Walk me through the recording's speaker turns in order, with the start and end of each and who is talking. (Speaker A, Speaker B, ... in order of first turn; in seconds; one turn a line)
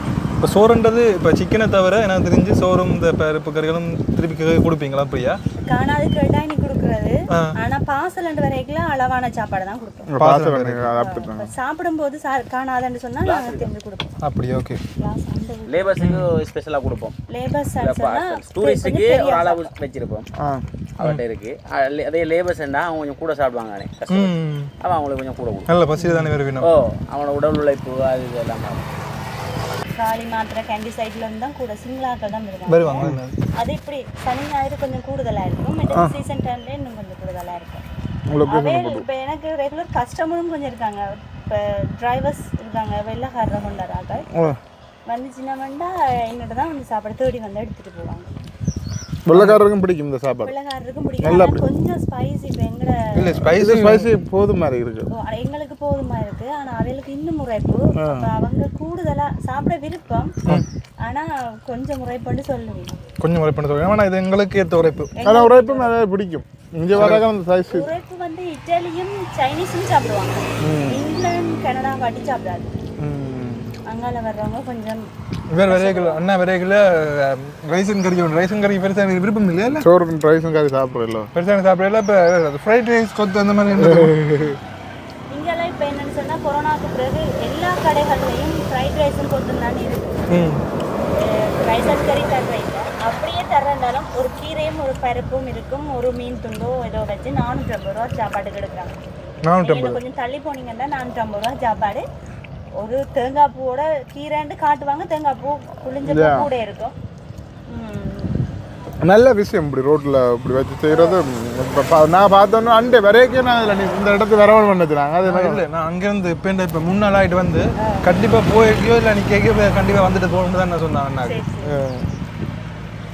Speaker A: 0.4-5.4
Speaker B: 5.6-10.1
Speaker A: 7.3-7.6
Speaker C: 10.1-11.5
Speaker A: 10.2-10.9
Speaker B: 10.9-14.2
Speaker D: 13.2-13.7
Speaker A: 14.2-14.8
Speaker B: 15.0-16.1
Speaker D: 15.7-17.1
Speaker A: 16.0-16.3
Speaker B: 17.3-19.7
Speaker D: 17.8-20.3
Speaker C: 20.4-20.6
Speaker D: 21.0-25.7
Speaker A: 24.1-24.7
Speaker A: 25.7-26.7
Speaker C: 26.0-26.3
Speaker D: 26.6-28.9
Speaker B: 30.0-37.9
Speaker A: 32.7-33.4
Speaker C: 35.9-36.1
Speaker C: 38.3-39.0
Speaker B: 38.5-44.3
Speaker B: 45.1-48.3
Speaker C: 49.2-50.5
Speaker A: 49.3-49.6
Speaker B: 50.4-53.3
Speaker C: 51.2-51.6
Speaker A: 53.1-54.1
Speaker C: 53.4-55.1
Speaker B: 55.1-60.4
Speaker C: 58.0-58.3
Speaker B: 61.0-63.0
Speaker A: 63.2-65.1
Speaker B: 65.2-65.9
Speaker C: 65.2-67.9
Speaker A: 66.9-67.2
Speaker B: 67.7-72.7
Speaker C: 70.6-71.0
Speaker A: 73.0-73.7
Speaker B: 73.9-75.1
Speaker A: 75.5-79.8
Speaker B: 75.7-76.2
Speaker C: 79.8-81.3
Speaker A: 81.3-84.1
Speaker C: 83.8-84.6
Speaker B: 85.3-90.3
Speaker A: 90.3-90.7
Speaker B: 91.2-99.0
Speaker A: 99.5-100.0
Speaker B: 99.6-102.1
Speaker B: 102.8-107.0
Speaker C: 106.0-106.5
Speaker B: 107.7-108.4
Speaker C: 109.0-115.6
Speaker B: 110.9-111.2
Speaker A: 115.2-121.4
Speaker B: 117.8-118.0
Speaker B: 121.2-121.7
Speaker C: 121.6-122.1